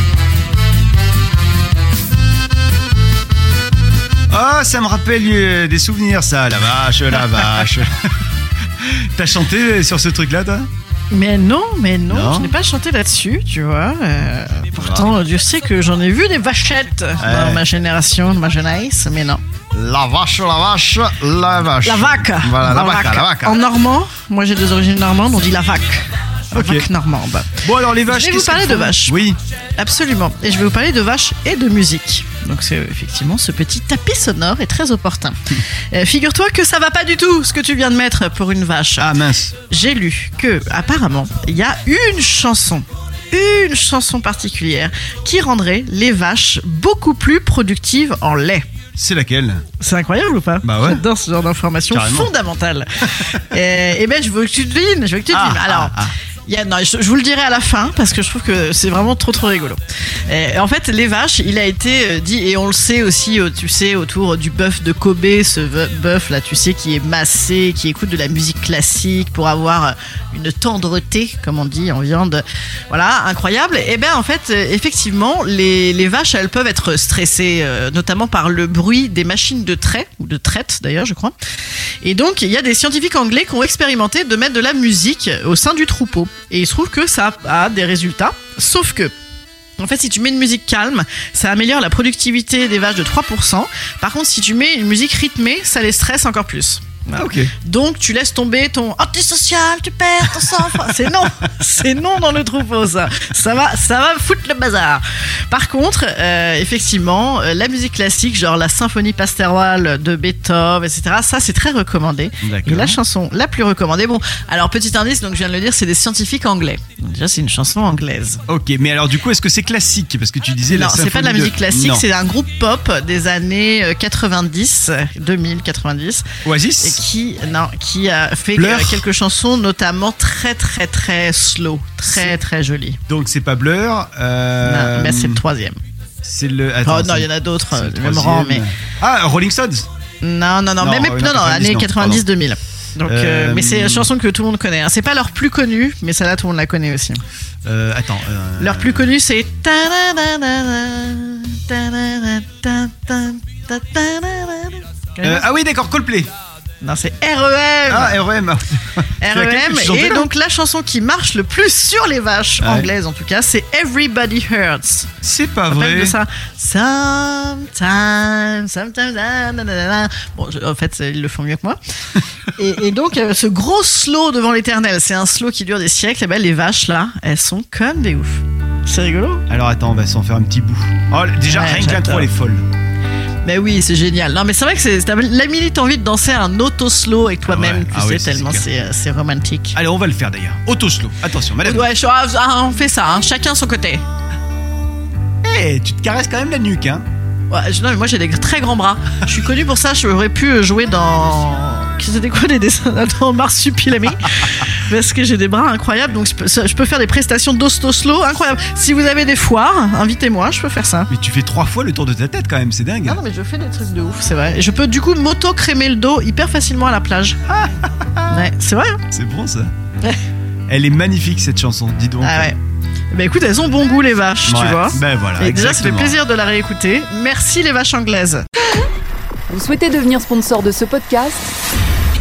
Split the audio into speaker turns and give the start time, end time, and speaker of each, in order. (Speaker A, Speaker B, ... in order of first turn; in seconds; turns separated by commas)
Speaker A: 4.3-7.9, Speaker A: 8.8-10.7, Speaker B: 11.1-19.4, Speaker A: 12.1-12.5, Speaker A: 14.7-15.1, Speaker A: 17.2-17.6, Speaker A: 19.7-23.6, Speaker B: 21.8-29.2, Speaker A: 26.5-26.9, Speaker A: 27.5-29.4, Speaker B: 29.8-35.3, Speaker B: 35.9-48.6, Speaker A: 39.0-39.5, Speaker A: 48.9-49.6, Speaker B: 49.8-81.3, Speaker A: 50.6-51.0, Speaker A: 51.9-52.3, Speaker A: 55.3-56.1, Speaker B: 82.0-89.1, Speaker B: 89.8-118.4, Speaker A: 97.2-97.5, Speaker A: 112.4-113.0, Speaker A: 118.5-122.0, Speaker B: 120.7-126.3, Speaker A: 126.4-127.0, Speaker B: 126.8-133.0, Speaker A: 128.6-129.0, Speaker A: 133.1-135.4, Speaker B: 134.6-135.8, Speaker A: 136.2-139.9, Speaker B: 136.8-138.6, Speaker B: 140.2-147.2, Speaker A: 140.8-142.2, Speaker A: 143.0-144.1, Speaker A: 147.6-149.1, Speaker B: 148.6-155.4, Speaker A: 155.2-156.3, Speaker B: 156.8-158.2, Speaker A: 157.9-160.3, Speaker B: 159.2-165.1, Speaker A: 162.6-162.9, Speaker A: 165.2-166.2, Speaker B: 165.7-171.8, Speaker B: 172.5-179.4, Speaker A: 179.5-182.6, Speaker B: 181.4-182.3, Speaker B: 183.4-189.8, Speaker A: 187.4-188.7, Speaker A: 189.7-191.9, Speaker B: 191.6-194.0, Speaker A: 195.4-197.0, Speaker B: 197.5-211.1, Speaker A: 211.1-213.2, Speaker B: 213.1-217.4, Speaker A: 217.6-218.0, Speaker B: 218.3-219.0, Speaker A: 219.1-219.7, Speaker A: 220.7-222.5, Speaker B: 222.2-222.6, Speaker B: 223.1-228.5, Speaker A: 224.4-226.2, Speaker C: 229.5-231.5